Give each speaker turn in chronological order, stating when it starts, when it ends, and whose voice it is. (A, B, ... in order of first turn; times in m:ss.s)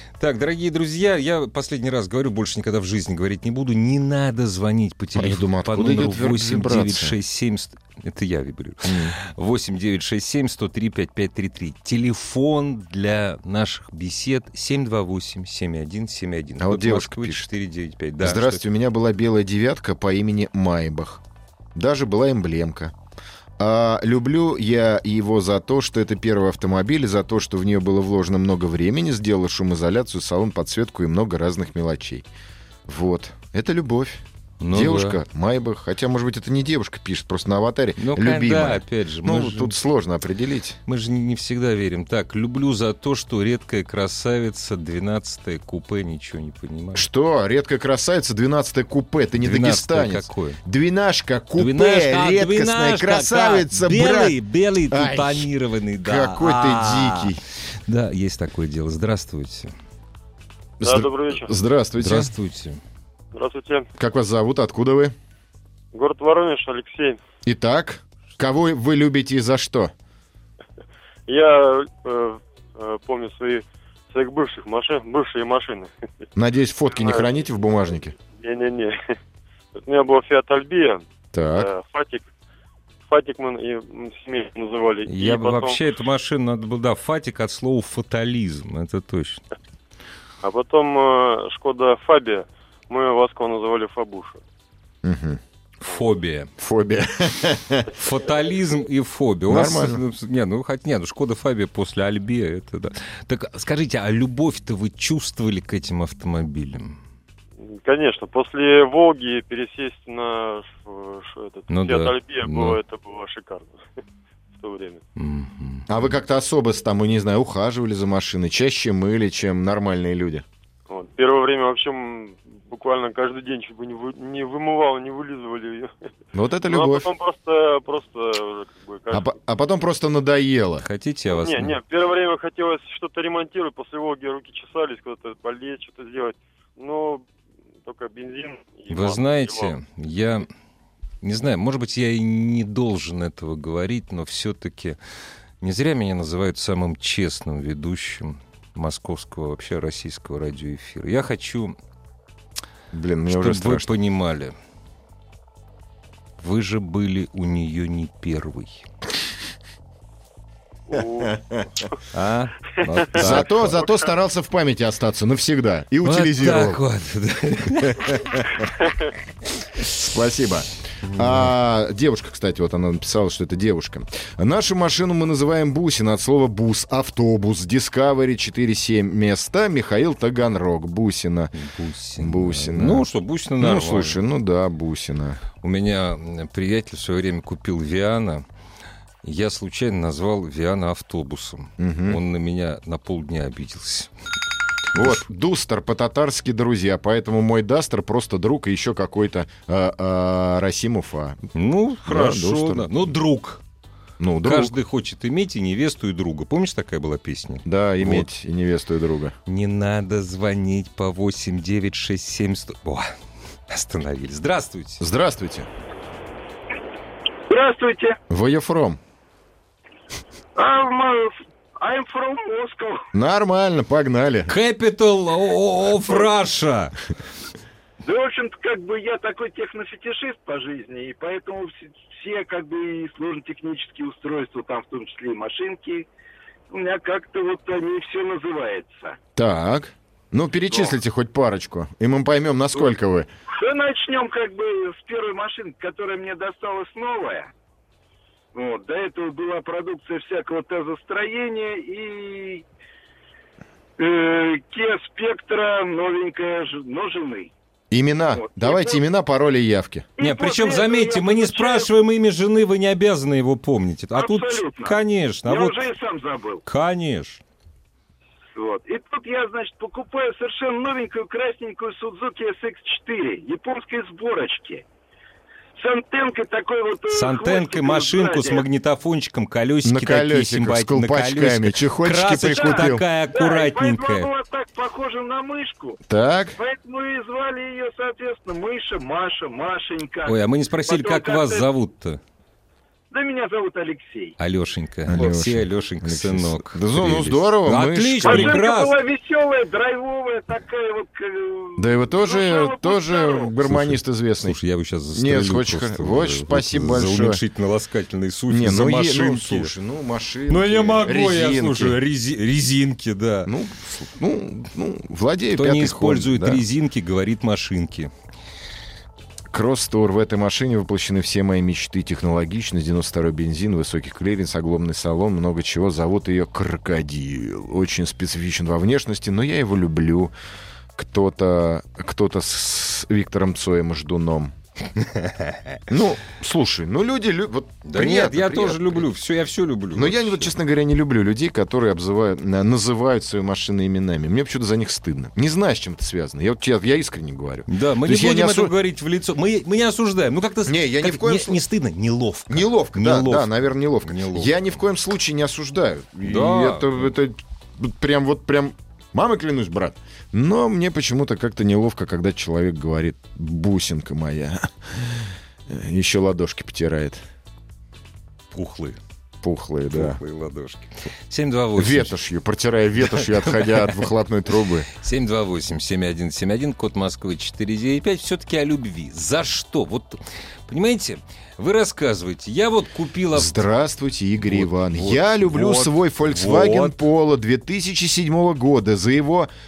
0:00.2-0:18.6 A
0:05.2-0:07.2 B
0:08.8-0:09.2 B
0:16.6-0:17.5 B
0:18.2-0:21.2 B
0:21.8-0:22.9 B
0:23.6-0:32.3 B
0:32.9-0:40.8 B
0:34.6-0:35.2 A
0:38.0-0:39.8 A
0:40.9-0:47.1 A
0:47.0-0:54.4 B
0:49.4-0:50.6 A
0:51.6-0:57.4 A
0:54.9-0:55.5 B
0:56.0-0:57.4 B
0:57.9-0:59.7 A
1:00.8-1:02.3 B
1:00.8-1:01.5 C
1:02.0-1:02.8 A
1:03.3-1:03.9 C
1:04.0-1:05.2 B
1:05.9-1:07.2 C
1:07.4-1:09.9 B
1:11.3-1:15.9 C
1:16.4-1:18.1 B
1:16.9-1:17.3 C
1:18.3-1:19.2 C
1:19.8-1:22.2 C
1:21.3-1:21.7 B
1:23.1-1:25.8 C
1:25.1-1:29.4 A
1:30.4-1:34.4 C
1:35.0-1:35.4 B
1:35.8-1:36.5 A
1:36.6-1:37.9 B
1:38.0-1:47.0 A
1:39.5-1:40.0 B
1:47.6-1:53.8 C
1:51.7-1:52.8 A
1:54.6-1:55.0 C
1:55.2-1:55.9 A
1:55.9-2:00.4 B
2:00.9-2:05.9 C
2:06.3-2:07.1 B
2:06.7-2:09.3 C
2:09.1-2:10.9 B
2:10.8-2:11.8 A
2:11.3-2:17.3 C
2:17.8-2:19.8 C
2:18.9-2:20.5 A
2:21.2-2:25.0 A
2:25.6-2:31.7 A
2:32.9-2:33.9 B
2:33.3-2:34.5 A
2:36.4-2:38.9 A
2:40.9-2:41.9 C
2:41.2-2:41.6 B
2:42.1-2:43.8 A
2:43.2-2:46.8 B
2:46.0-2:48.2 A
2:47.9-2:48.4 B
2:49.8-3:01.5 B
3:01.6-3:04.2 A
3:02.2-3:03.1 B
3:03.6-3:05.4 B
3:05.6-3:08.4 A
3:09.2-3:14.1 A
3:11.8-3:12.2 B
3:14.9-3:21.4 B
3:21.6-3:23.6 A
3:22.1-3:22.9 B
3:24.2-3:24.8 B
3:24.4-3:28.3 A
3:27.6-3:29.4 B
3:29.5-3:33.1 A
3:33.7-3:35.0 A
3:35.0-3:35.7 B
3:37.5-3:38.2 D
3:38.3-3:39.0 B
3:40.6-3:43.1 D
3:43.1-3:44.5 B
3:44.5-3:47.0 A
3:48.0-3:56.1 D
3:56.7-3:59.2 D
3:59.4-4:03.3 B
4:00.7-4:01.0 D
4:03.6-4:07.5 D
4:08.6-4:12.6 D
4:14.0-4:17.5 D
4:17.9-4:20.1 B
4:18.3-4:19.0 D
4:20.2-4:21.9 D
4:20.2-4:25.8 A
4:24.2-4:26.6 D
4:26.6-4:27.4 A
4:28.6-4:34.8 D
4:35.8-4:38.6 D
4:37.1-4:44.3 A
4:39.8-4:43.0 B
4:42.5-4:46.0 D
4:46.1-4:46.6 B
4:46.6-4:51.7 D
4:50.2-4:52.2 A
4:53.1-4:54.4 D
4:54.4-4:59.0 A
4:55.1-4:58.6 B
4:58.2-5:03.5 D
5:01.8-5:04.6 B
5:03.6-5:09.7 A
5:05.1-5:07.4 B
5:08.5-5:12.0 B
5:10.5-5:13.5 A
5:13.5-5:16.6 B
5:15.5-5:18.1 A
5:19.5-5:30.3 B
5:31.0-5:34.5 B
5:35.0-5:35.8 A
5:35.9-5:39.1 B
5:37.8-5:40.5 A
5:39.9-5:48.7 B
5:47.7-5:54.6 A
5:50.7-5:51.6 B
5:52.5-6:07.2 B
5:56.2-5:57.1 A
6:08.5-6:09.0 A
6:09.4-6:10.2 B
6:09.9-6:12.2 A
6:11.8-6:14.9 B
6:13.0-6:14.0 A
6:15.0-6:23.6 A
6:23.3-6:29.5 B
6:24.4-6:27.0 A